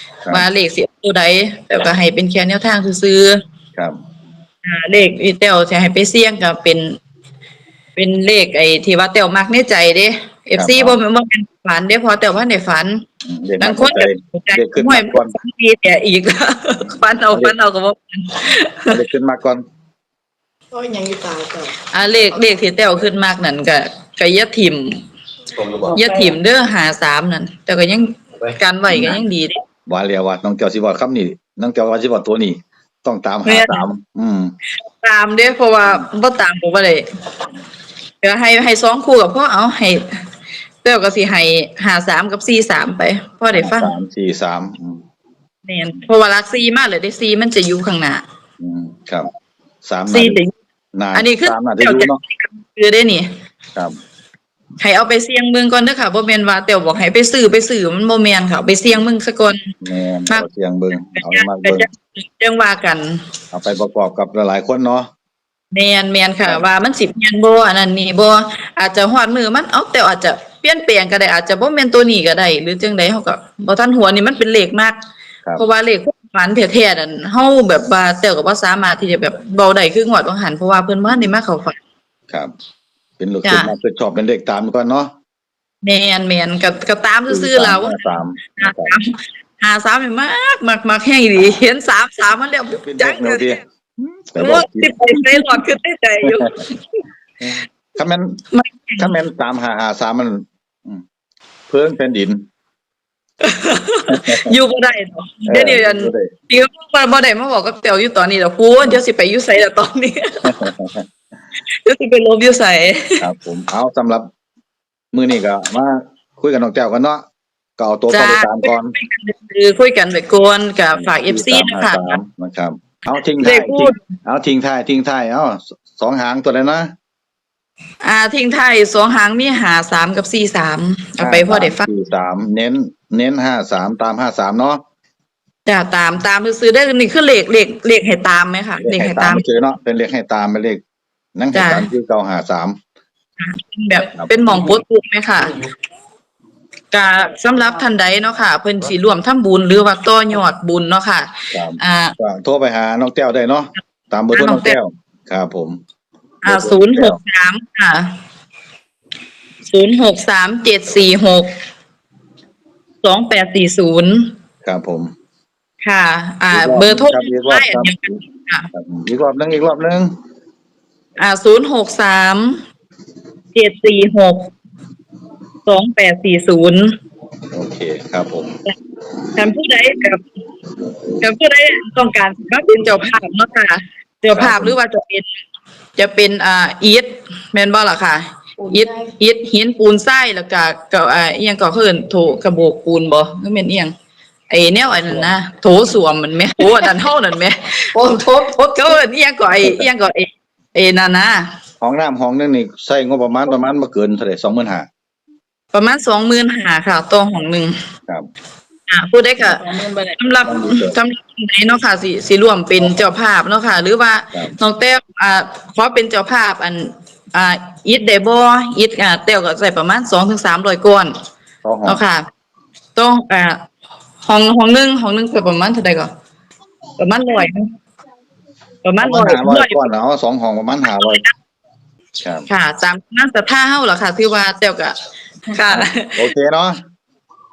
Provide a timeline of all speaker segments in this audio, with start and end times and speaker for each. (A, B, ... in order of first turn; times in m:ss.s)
0:00.3-0:03.4 A
0:04.6-0:07.0 A
0:08.0-0:13.0 A
0:10.6-0:11.0 B
0:13.2-0:15.4 B
0:13.6-0:19.0 A
0:18.4-0:19.6 B
0:20.7-0:21.8 C
0:21.9-0:25.0 A
0:25.8-0:26.3 C
0:25.9-0:29.6 A
0:28.9-0:29.2 B
0:29.9-0:34.5 B
0:33.4-0:33.8 A
0:34.8-0:37.0 A
0:38.2-0:40.1 A
0:40.8-0:43.9 A
0:43.5-0:45.0 B
0:45.6-0:48.2 A
0:48.6-0:49.3 B
0:49.8-0:50.4 B
0:50.1-0:50.5 A
0:50.9-0:52.2 B
0:51.1-0:53.3 A
0:54.8-0:59.6 A
0:59.8-1:01.9 B
1:01.1-1:03.2 A
1:03.5-1:05.1 B
1:05.7-1:15.0 A
1:15.6-1:21.8 A
1:23.2-1:25.1 B
1:23.4-1:23.7 A
1:25.8-1:33.5 A
1:27.3-1:29.0 B
1:32.8-1:35.6 B
1:34.4-1:37.0 A
1:37.4-1:38.4 B
1:38.5-1:39.1 A
1:39.0-1:41.0 B
1:41.7-1:42.4 B
1:43.4-1:50.6 A
1:44.1-1:44.5 B
1:45.5-1:46.3 B
1:50.4-1:51.0 B
1:51.8-1:53.2 A
1:53.2-1:54.3 B
1:55.1-1:57.2 B
1:57.8-1:58.9 B
1:58.1-2:02.2 A
2:01.0-2:06.9 B
2:03.4-2:04.0 A
2:08.0-2:11.9 A
2:11.2-2:14.8 B
2:15.6-2:19.4 A
2:18.8-2:20.8 B
2:21.4-2:22.8 B
2:21.5-2:21.9 A
2:23.4-2:25.6 A
2:24.1-2:24.7 B
2:26.9-2:32.1 A
2:31.5-2:35.8 B
2:34.3-2:34.8 A
2:36.4-2:38.1 A
2:36.4-2:37.2 B
2:39.7-2:41.5 A
2:43.0-2:44.3 A
2:44.6-2:45.1 B
2:45.8-2:48.7 A
2:46.5-2:48.2 B
2:48.7-2:50.1 B
2:51.2-2:52.6 A
2:53.5-2:54.5 A
2:55.6-2:56.9 A
2:57.5-2:58.5 B
2:59.3-3:00.2 A
3:01.2-3:05.3 A
3:04.3-3:04.8 B
3:06.0-3:13.9 A
3:08.6-3:09.1 C
3:14.5-3:18.0 A
3:17.9-3:18.9 C
3:18.5-3:21.5 A
3:19.5-3:19.9 B
3:21.8-3:24.9 B
3:25.7-3:27.7 A
3:28.9-3:41.1 A
3:29.5-3:30.1 C
3:30.4-3:30.9 B
3:41.6-3:42.0 B
3:41.8-3:42.2 A
3:43.0-3:43.6 A
3:44.2-3:46.1 A
3:47.0-3:47.7 A
3:48.8-3:49.9 A
3:49.0-3:51.2 B
3:51.0-3:51.3 A
3:52.5-3:54.9 A
3:55.5-3:56.2 A
3:55.7-3:56.8 B